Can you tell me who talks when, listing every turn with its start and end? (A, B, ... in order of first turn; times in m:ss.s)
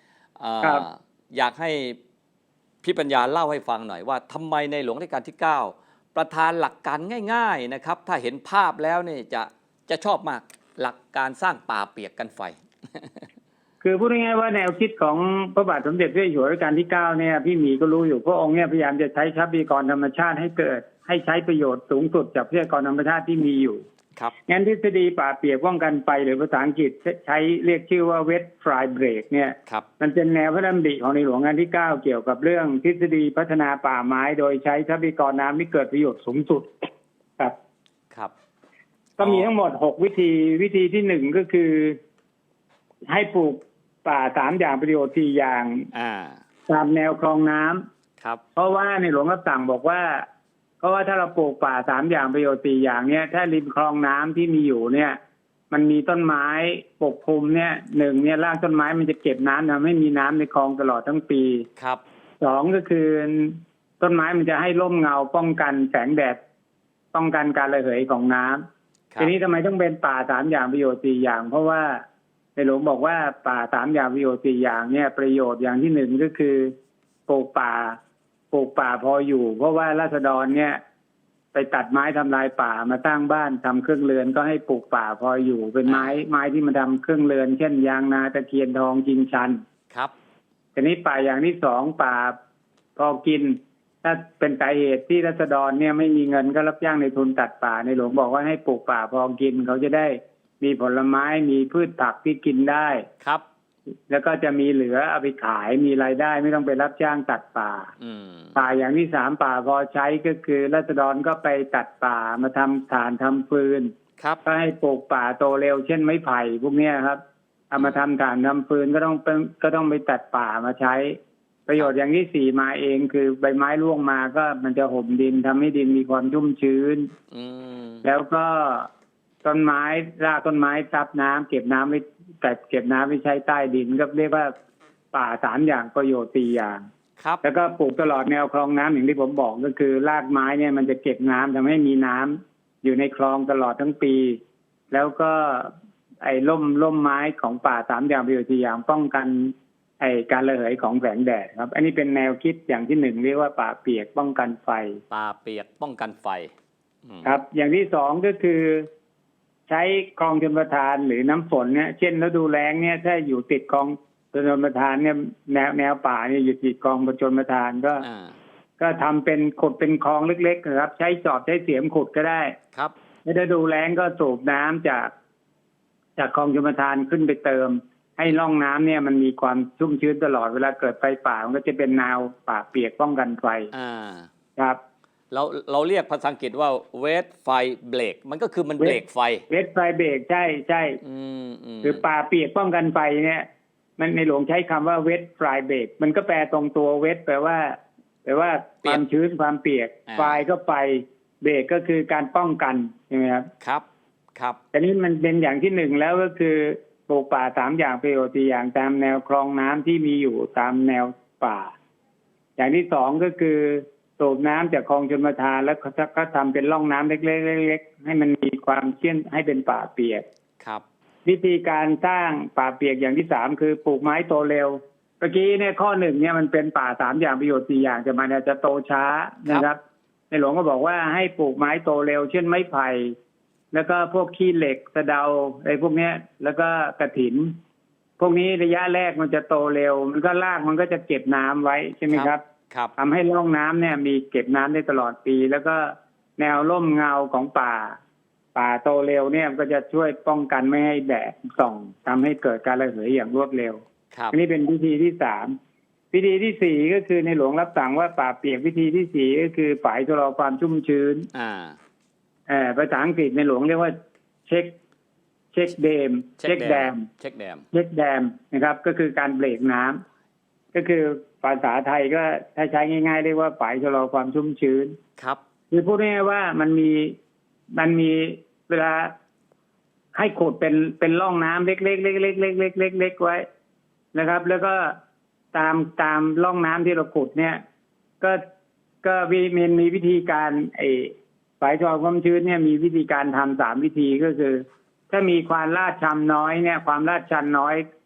0:00.4-0:02.0 A
0:02.8-0:13.3 A
0:13.8-0:23.8 B
0:24.5-0:36.9 B
0:39.2-0:42.0 B
0:39.2-0:39.5 A
0:43.1-0:45.9 B
0:45.9-0:46.4 A
0:46.7-0:47.8 B
0:48.6-0:50.3 B
0:50.8-0:55.2 B
0:55.7-1:01.7 B
1:02.4-1:06.4 B
1:07.1-1:08.6 B
1:09.2-1:12.0 B
1:12.6-1:16.7 B
1:17.3-1:18.0 B
1:18.5-1:20.8 B
1:21.5-1:29.6 B
1:25.9-1:26.2 A
1:30.8-1:32.4 B
1:33.0-1:43.0 B
1:44.1-1:47.9 B
1:48.0-1:48.6 A
1:48.6-1:53.9 B
1:54.4-2:07.1 B
1:57.8-1:58.0 A
2:07.3-2:08.0 A
2:08.0-2:08.9 B
2:09.4-2:14.5 B
2:15.1-2:16.8 B
2:17.4-2:24.4 B
2:24.9-2:35.0 B
2:35.1-2:36.5 A
2:37.1-2:37.4 A
2:37.2-2:38.9 B
2:39.7-2:48.1 B
2:48.0-2:48.4 A
2:48.8-2:52.6 B
2:53.2-2:55.1 B
2:56.2-3:03.7 B
3:03.7-3:04.3 A
3:05.3-3:09.4 A
3:08.8-3:11.0 B
3:11.0-3:12.0 A
3:11.8-3:13.5 B
3:14.0-3:23.5 B
3:20.1-3:20.4 A
3:24.7-3:31.7 B
3:32.6-3:40.2 B
3:41.3-3:49.8 B
3:50.3-3:53.2 B
3:53.7-3:57.6 B
3:58.2-4:02.4 B
4:02.1-4:02.9 A
4:03.0-4:08.0 B
4:08.6-4:15.6 B
4:16.1-4:21.3 B
4:21.3-4:21.8 A
4:22.5-4:24.0 B
4:24.5-4:24.8 B
4:25.5-4:27.0 B
4:26.4-4:27.6 A
4:27.7-4:30.0 B
4:30.7-4:35.0 B
4:35.7-4:37.2 B
4:37.7-4:39.1 B
4:40.1-4:43.5 B
4:44.1-4:45.0 B
4:45.5-4:47.6 B
4:49.0-4:57.8 B